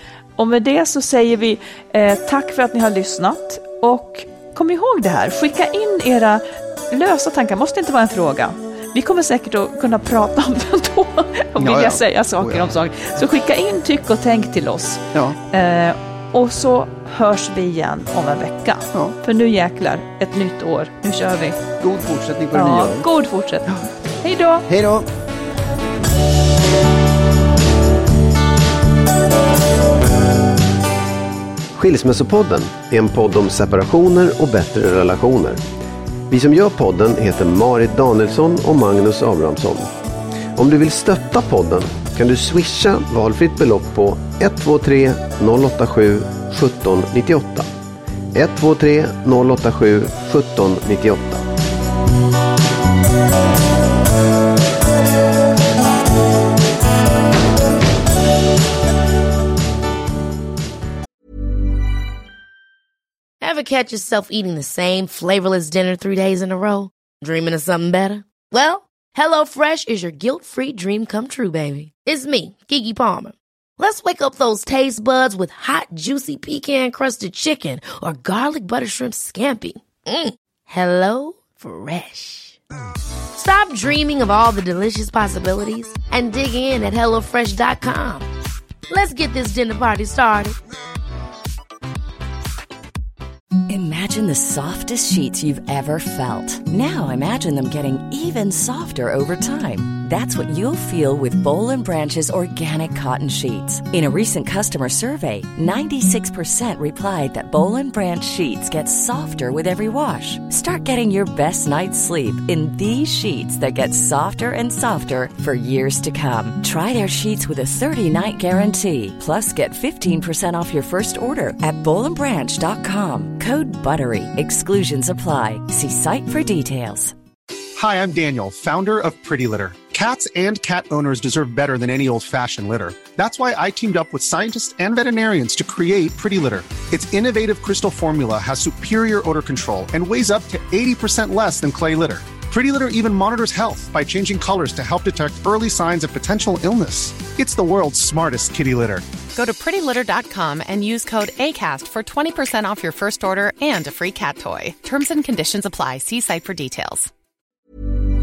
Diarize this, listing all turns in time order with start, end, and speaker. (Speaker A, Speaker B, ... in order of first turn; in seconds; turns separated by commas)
Speaker A: 0.4-21.6, Speaker B: 11.6-12.7, Speaker B: 15.1-15.4, Speaker B: 21.8-23.1, Speaker A: 22.5-24.7, Speaker B: 24.7-25.1, Speaker B: 31.8-35.6, Speaker B: 36.3-39.9, Speaker B: 40.6-47.7, Speaker B: 48.4-51.4, Speaker C: 63.4-82.6, Speaker C: 83.4-88.3, Speaker C: 88.9-90.6, Speaker D: 93.7-127.1, Speaker E: 127.8-149.1, Speaker F: 149.3-157.1